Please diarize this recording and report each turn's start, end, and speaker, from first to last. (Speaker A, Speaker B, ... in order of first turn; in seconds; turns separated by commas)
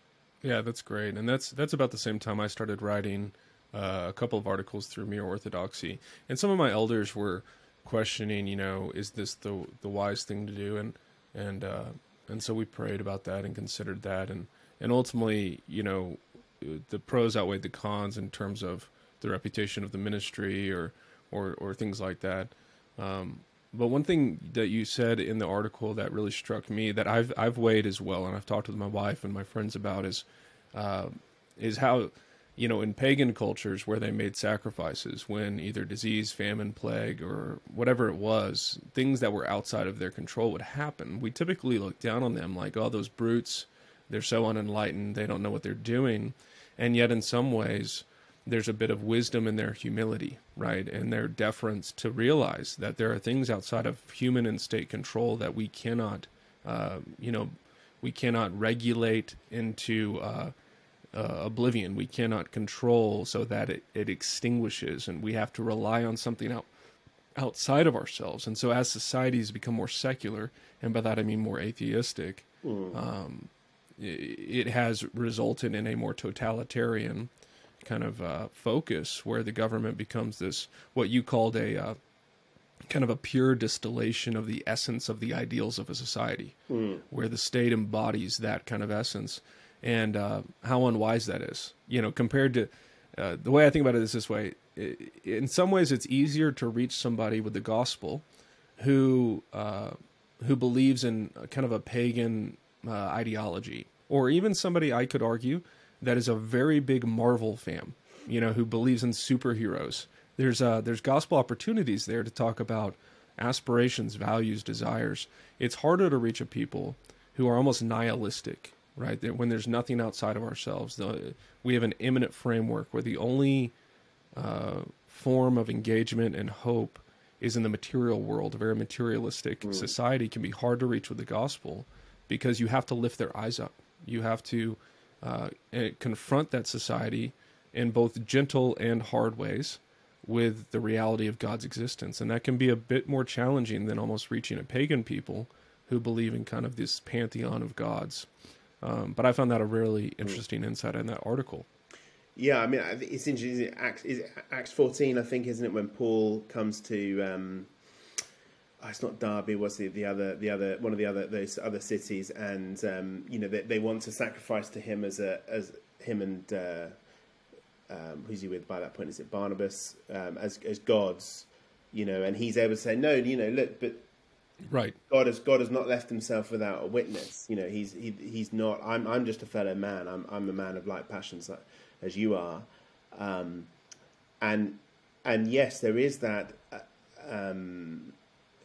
Speaker A: 0.4-60.5, Speaker A: 61.1-66.7, Speaker A: 67.4-77.3, Speaker B: 72.6-73.0, Speaker A: 77.8-82.0, Speaker A: 82.9-86.5, Speaker B: 86.7-87.0, Speaker A: 87.1-98.2, Speaker A: 98.8-123.7, Speaker A: 124.3-148.3, Speaker B: 129.6-129.9, Speaker A: 148.8-151.7, Speaker B: 152.4-157.7, Speaker B: 158.8-166.9, Speaker B: 167.9-174.1, Speaker A: 174.7-174.9, Speaker B: 175.1-183.7, Speaker B: 184.4-188.2